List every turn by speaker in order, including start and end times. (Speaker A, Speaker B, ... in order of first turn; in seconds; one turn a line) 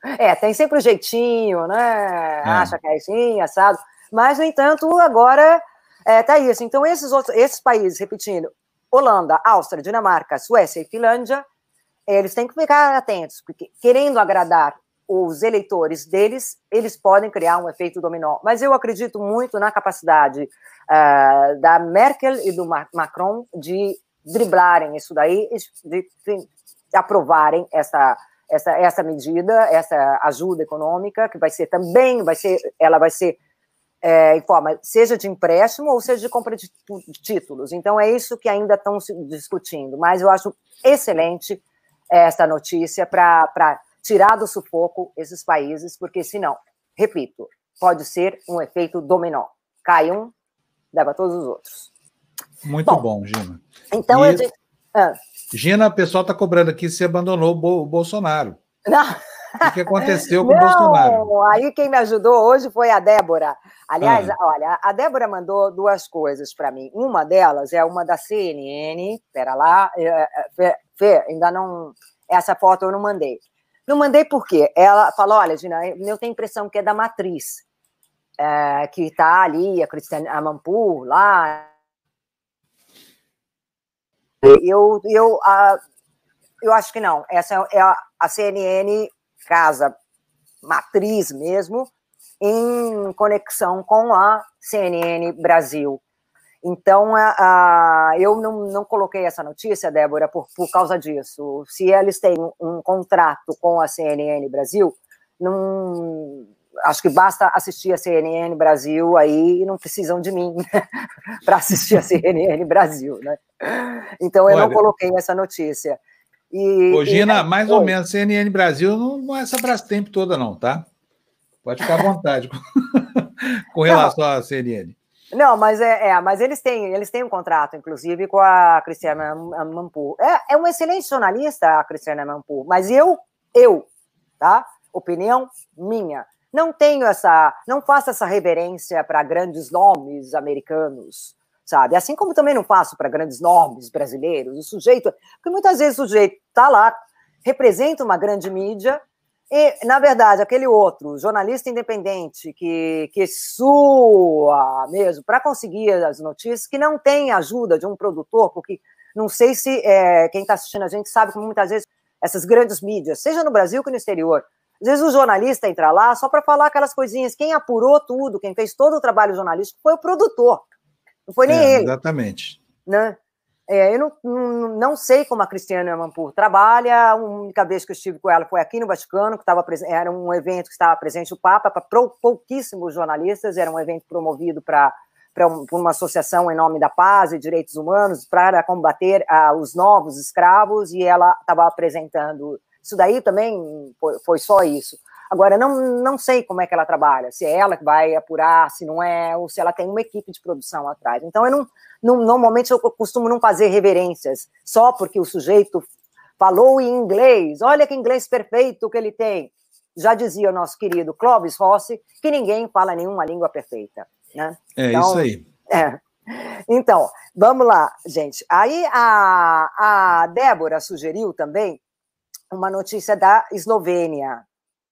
Speaker A: 0.1-11.4
Speaker B: 2.5-2.7
Speaker A: 12.1-33.4
Speaker A: 34.0-50.3
Speaker A: 50.9-51.9
Speaker B: 52.6-54.4
Speaker A: 53.9-55.2
Speaker B: 55.5-58.6
Speaker A: 58.9-77.6
Speaker B: 59.6-61.3
Speaker B: 64.0-64.3
Speaker A: 78.4-81.7
Speaker A: 84.4-85.8
Speaker A: 86.6-89.9
Speaker A: 90.6-91.9
Speaker A: 92.4-96.0
Speaker A: 96.6-110.6
Speaker A: 111.5-116.0
Speaker B: 114.5-114.8
Speaker A: 116.5-117.9
Speaker B: 116.9-120.9
Speaker B: 121.7-125.0
Speaker A: 123.9-124.1
Speaker A: 125.3-133.9
Speaker A: 134.4-170.7
Speaker A: 171.3-171.9
Speaker B: 171.5-172.6
Speaker A: 172.9-173.2
Speaker A: 173.7-205.8
Speaker A: 206.4-221.8
Speaker B: 214.8-215.4
Speaker A: 222.5-224.4